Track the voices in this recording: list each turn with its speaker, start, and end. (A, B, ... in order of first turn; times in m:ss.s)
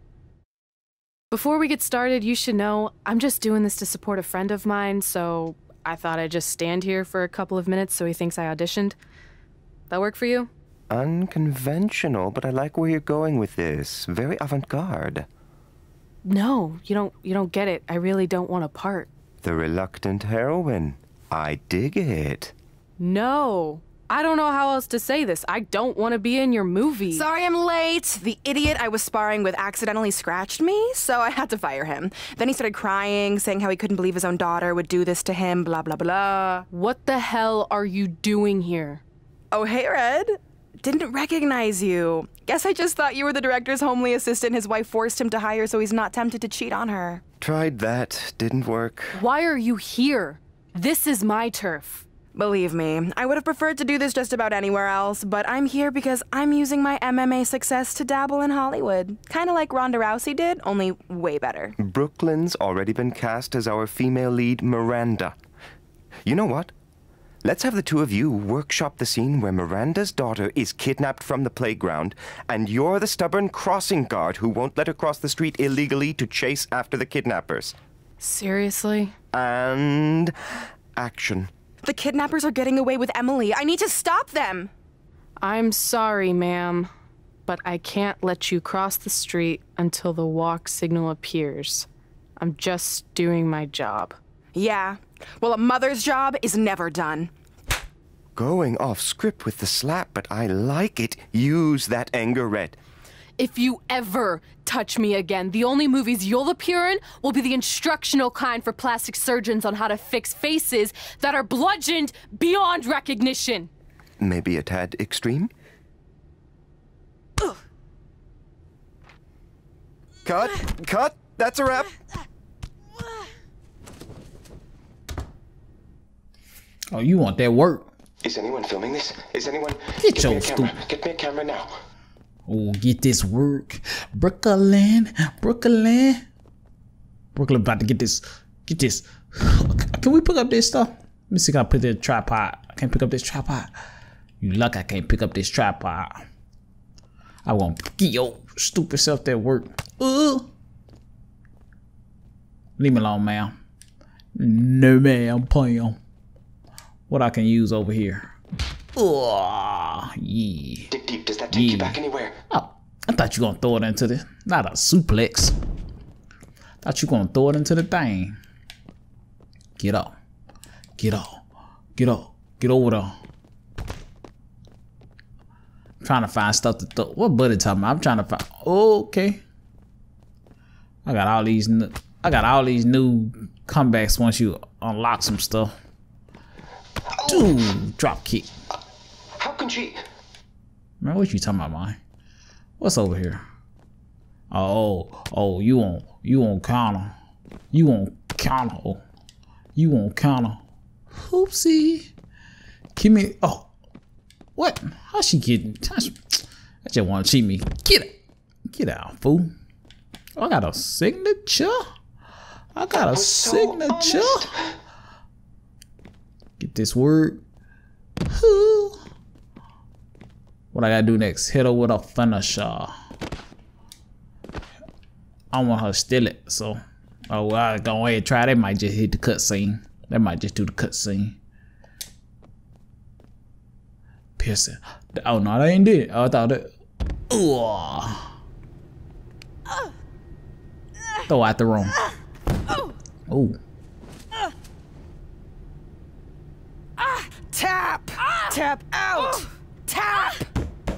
0:01.3-0:09.0 A
0:09.9-0:10.5 A
0:10.9-0:15.3 B
0:16.2-0:19.1 A
0:19.4-0:22.5 B
0:23.0-0:27.2 A
0:27.1-0:36.6 C
0:36.7-0:39.0 A
0:39.5-0:47.2 C
0:47.4-0:49.2 B
0:49.1-0:52.0 A
0:52.3-1:01.7 C
1:01.8-1:05.4 B
1:06.2-1:06.7 B
1:07.4-1:17.8 B
1:18.2-1:19.1 A
1:19.3-1:20.3 B
1:21.0-1:21.5 B
1:21.8-1:24.7 C
1:25.4-1:26.9 A
1:27.4-1:34.2 A
1:34.5-1:37.3 C
1:38.4-1:42.8 B
1:43.4-1:53.7 A
1:54.2-1:55.5 B
2:00.2-2:02.0 B
2:06.9-2:07.9 D
2:08.2-2:11.8 B
2:10.0-2:10.7 D
2:12.5-2:16.2 D
2:17.3-2:23.7 D
2:24.4-2:26.2 D
2:27.4-2:30.5 D
2:32.8-2:33.5 D
2:34.4-2:36.0 D
2:37.1-2:38.3 D
2:39.0-2:40.9 D
2:40.9-2:42.4 B
2:41.5-2:42.0 D
2:42.5-2:45.5 D
2:46.8-2:48.4 D
2:49.8-2:50.1 D
2:51.0-2:51.4 D
2:52.0-2:53.1 D
2:56.0-2:59.4 D
3:01.0-3:05.7 D
3:07.1-3:07.5 B
3:07.2-3:08.5 D
3:09.4-3:10.0 B
3:11.0-3:12.0 D
3:12.8-3:13.4 D
3:14.5-3:17.1 D
3:17.7-3:19.0 D
3:19.8-3:20.6 D
3:21.2-3:22.1 D
3:23.0-3:23.7 D
3:24.6-3:28.1 D
3:28.7-3:29.5 D
3:30.4-3:31.8 D
3:32.7-3:34.5 D
3:32.9-3:34.7 B
3:36.6-3:37.4 D
3:38.3-3:39.0 D
3:40.7-3:42.9 D
3:45.5-3:46.8 D
3:47.3-3:51.4 D
3:54.4-3:56.7 D
3:57.3-3:58.3 D
4:01.3-4:02.0 D
4:03.3-4:03.6 D
4:07.0-4:10.5 C